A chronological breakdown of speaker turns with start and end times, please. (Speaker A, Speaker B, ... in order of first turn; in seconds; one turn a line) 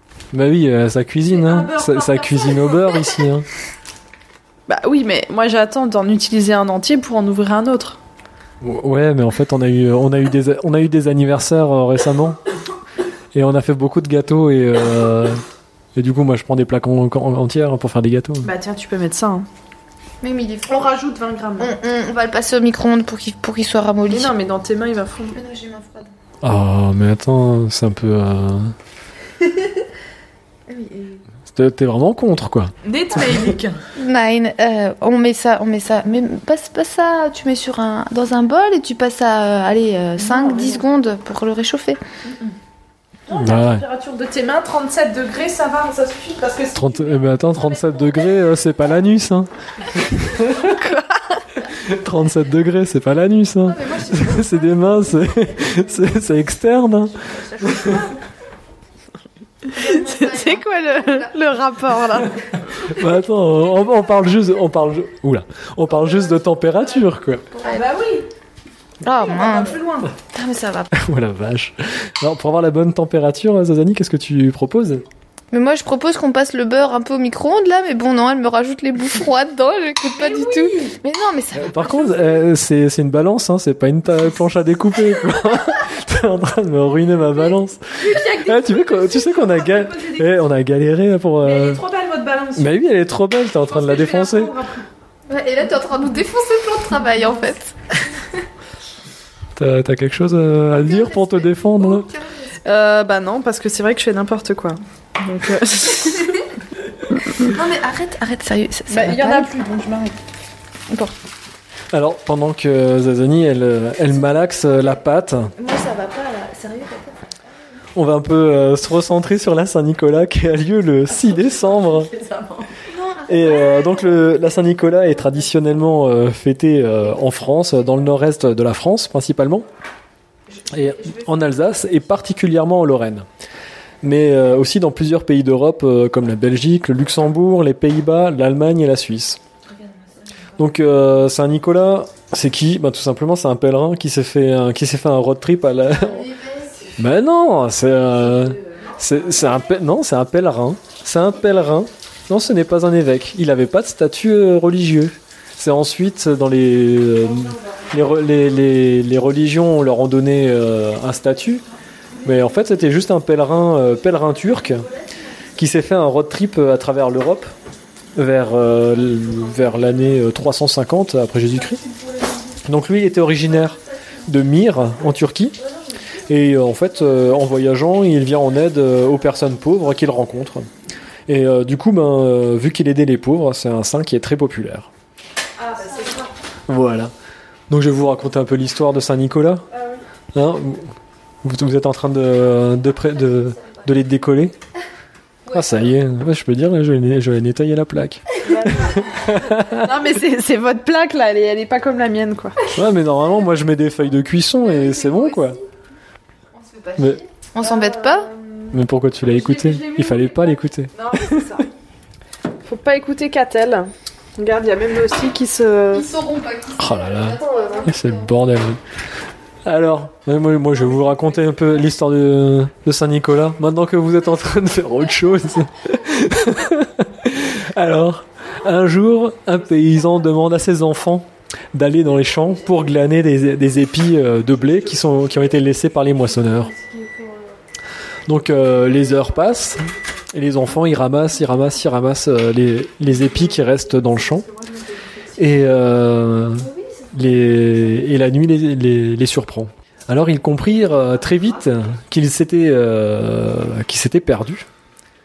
Speaker A: 0.3-3.5
Speaker B: 1.3-3.1
Speaker B: 4.7-8.0
Speaker A: 8.6-12.4
Speaker A: 13.3-15.4
Speaker A: 15.9-18.5
Speaker B: 18.4-19.5
Speaker C: 20.2-20.9
Speaker B: 20.7-21.8
Speaker C: 21.6-24.3
Speaker B: 24.1-25.4
Speaker C: 25.3-26.1
Speaker A: 26.4-28.8
Speaker C: 30.7-31.2
Speaker A: 31.5-32.7
Speaker B: 32.8-33.8
Speaker C: 34.0-42.0
Speaker B: 40.2-40.8
Speaker B: 42.3-42.5
Speaker B: 43.3-48.6
Speaker A: 43.3-43.8
Speaker A: 46.7-50.7
Speaker B: 50.4-51.4
Speaker A: 51.8-58.0
Speaker C: 53.7-55.7
Speaker B: 57.5-58.1
Speaker C: 59.7-61.3
Speaker B: 59.7-62.5
Speaker A: 62.8-67.5
Speaker C: 67.5-67.8
Speaker B: 67.6-68.3
Speaker C: 69.0-70.9
Speaker B: 69.2-70.1
Speaker A: 70.9-75.0
Speaker C: 75.5-82.3
Speaker B: 80.1-80.9
Speaker A: 81.5-91.8
Speaker B: 87.9-90.4
Speaker B: 91.4-92.7
Speaker A: 92.5-94.5
Speaker B: 93.7-94.9
Speaker C: 95.3-98.0
Speaker A: 99.5-102.1
Speaker C: 100.8-102.5
Speaker B: 102.6-106.4
Speaker C: 107.4-109.5
Speaker B: 108.9-110.1
Speaker A: 111.9-115.5
Speaker C: 115.5-117.2
Speaker A: 117.9-122.1
Speaker B: 122.0-122.7
Speaker C: 122.9-124.1
Speaker A: 123.3-129.7
Speaker A: 130.7-133.3
Speaker A: 134.0-139.4
Speaker A: 140.6-146.3
Speaker C: 145.9-146.9
Speaker A: 146.9-161.6
Speaker A: 162.2-164.9
Speaker A: 165.6-167.5
Speaker A: 168.2-171.8
Speaker B: 171.8-172.4
Speaker A: 172.6-175.6
Speaker A: 176.3-180.7
Speaker A: 181.3-184.9
Speaker B: 185.6-186.3
Speaker A: 186.7-187.1
Speaker A: 187.7-189.7
Speaker B: 189.7-190.0
Speaker A: 190.3-194.5
Speaker A: 195.5-199.9
Speaker B: 198.4-202.7
Speaker A: 202.7-205.6
Speaker C: 204.7-205.6
Speaker C: 206.5-208.3
Speaker A: 207.0-207.2
Speaker B: 207.6-211.7
Speaker A: 208.7-211.7
Speaker B: 212.6-216.1
Speaker C: 215.9-218.3
Speaker A: 216.8-218.8
Speaker B: 217.4-217.9
Speaker A: 219.6-236.7
Speaker B: 236.4-237.6
Speaker A: 238.2-244.5
Speaker B: 243.2-245.5
Speaker A: 245.4-254.7